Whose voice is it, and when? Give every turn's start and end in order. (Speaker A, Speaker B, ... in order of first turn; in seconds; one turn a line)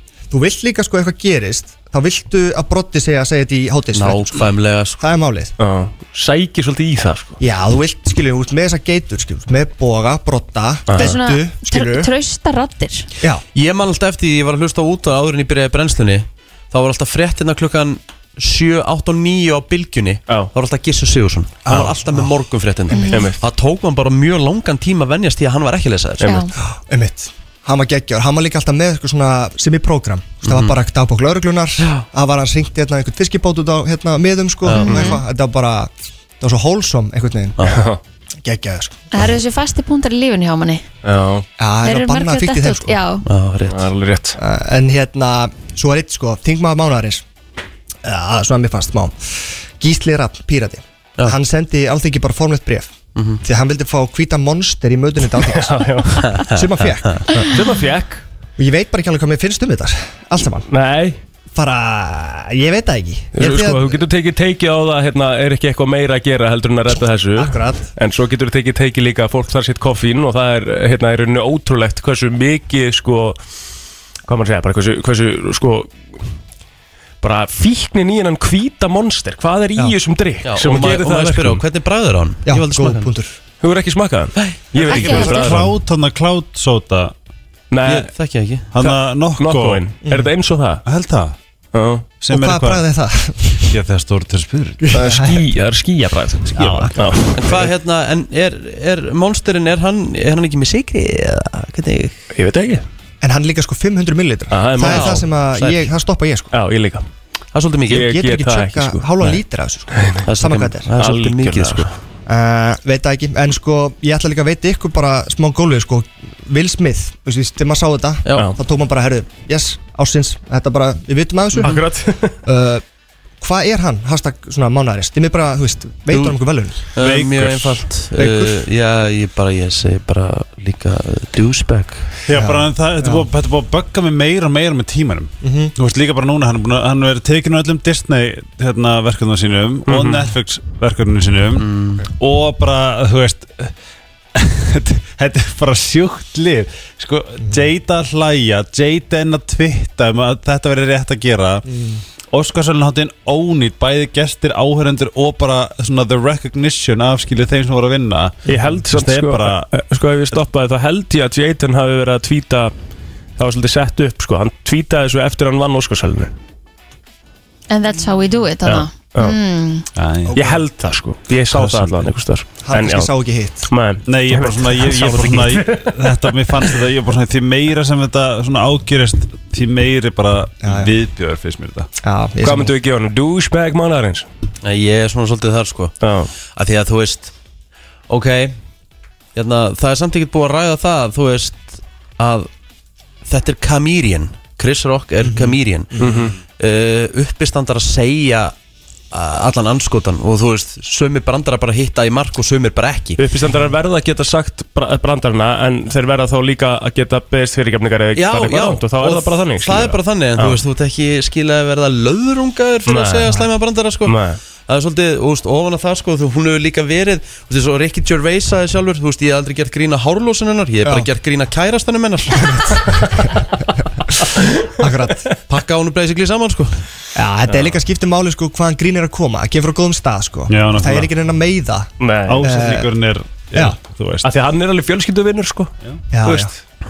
Speaker A: 0.3-5.5
Speaker B: 3.9-5.0
Speaker C: 5.6-7.4
Speaker A: 7.4-12.1
Speaker C: 10.9-11.2
Speaker D: 10.9-13.1
Speaker B: 13.5-26.4
Speaker A: 21.7-22.2
Speaker D: 22.9-23.3
Speaker C: 23.1-23.4
Speaker C: 26.2-26.4
Speaker D: 26.2-26.5
Speaker A: 26.6-37.6
Speaker B: 30.4-30.8
Speaker B: 34.6-35.2
Speaker D: 34.7-35.2
Speaker B: 37.6-37.9
Speaker C: 37.6-38.0
Speaker A: 38.4-39.0
Speaker D: 39.1-40.8
Speaker C: 41.0-41.5
Speaker A: 41.6-43.0
Speaker D: 41.8-43.2
Speaker B: 43.2-43.9
Speaker C: 43.7-44.4
Speaker A: 44.4-47.2
Speaker A: 48.0-57.6
Speaker B: 53.1-53.4
Speaker C: 55.4-56.5
Speaker B: 56.2-57.2
Speaker C: 57.3-58.2
Speaker A: 58.6-60.6
Speaker C: 60.7-61.2
Speaker A: 61.5-64.0
Speaker C: 63.3-73.4
Speaker A: 67.3-67.9
Speaker C: 74.3-75.9
Speaker C: 77.2-81.6
Speaker B: 80.4-83.1
Speaker A: 82.5-83.3
Speaker C: 83.6-85.7
Speaker B: 84.4-85.2
Speaker E: 84.8-87.1
Speaker D: 84.9-85.4
Speaker C: 87.7-88.1
Speaker B: 87.8-88.7
Speaker E: 88.7-89.8
Speaker C: 88.8-90.8
Speaker A: 90.0-90.3
Speaker E: 90.8-91.3
Speaker C: 91.7-92.1
Speaker E: 92.2-92.8
Speaker A: 92.3-93.7
Speaker E: 93.7-95.0
Speaker A: 94.9-95.4
Speaker C: 94.9-97.3
Speaker A: 96.5-97.6
Speaker B: 97.3-102.2
Speaker C: 102.3-102.8
Speaker A: 103.2-106.5
Speaker C: 104.5-105.2
Speaker B: 104.8-105.9
Speaker C: 106.5-107.0
Speaker B: 107.5-108.1
Speaker C: 107.9-109.1
Speaker A: 108.0-110.9
Speaker C: 109.9-110.2
Speaker B: 110.2-111.9
Speaker C: 111.0-111.9
Speaker A: 112.3-121.8
Speaker B: 118.2-118.5
Speaker C: 121.6-122.3
Speaker A: 122.4-122.8
Speaker A: 123.4-126.8
Speaker B: 126.1-126.4
Speaker B: 126.9-132.2
Speaker E: 127.0-127.8
Speaker A: 128.2-128.6
Speaker E: 132.3-143.7
Speaker A: 132.3-133.2
Speaker A: 135.4-135.7
Speaker C: 139.9-140.3
Speaker B: 141.6-142.0
Speaker E: 144.3-151.7
Speaker A: 151.7-152.0
Speaker E: 152.3-159.7
Speaker C: 158.5-162.7
Speaker C: 163.4-166.3
Speaker D: 167.7-169.8
Speaker C: 168.6-169.4
Speaker E: 169.9-170.4
Speaker A: 170.3-170.6
Speaker C: 170.3-173.1
Speaker E: 171.5-172.1
Speaker A: 172.6-173.7
Speaker C: 173.7-176.0
Speaker E: 174.1-181.9
Speaker A: 180.6-180.9
Speaker A: 182.0-182.7
Speaker C: 182.4-184.2
Speaker B: 184.6-185.9
Speaker C: 186.0-186.3
Speaker B: 186.5-187.3
Speaker B: 188.1-188.6
Speaker B: 189.3-192.5
Speaker B: 193.2-198.5
Speaker A: 195.2-196.3
Speaker C: 196.0-196.3
Speaker B: 199.1-203.2
Speaker C: 203.2-210.6
Speaker B: 208.1-222.9
Speaker C: 212.8-213.5
Speaker C: 214.0-214.4
Speaker A: 222.4-223.4
Speaker A: 224.8-225.3
Speaker B: 225.5-226.8
Speaker A: 227.1-231.9
Speaker C: 227.5-227.8
Speaker E: 230.5-231.1
Speaker C: 232.0-232.5
Speaker E: 232.2-234.3
Speaker A: 232.4-232.9
Speaker C: 234.2-235.7
Speaker A: 236.1-236.5
Speaker C: 236.2-236.5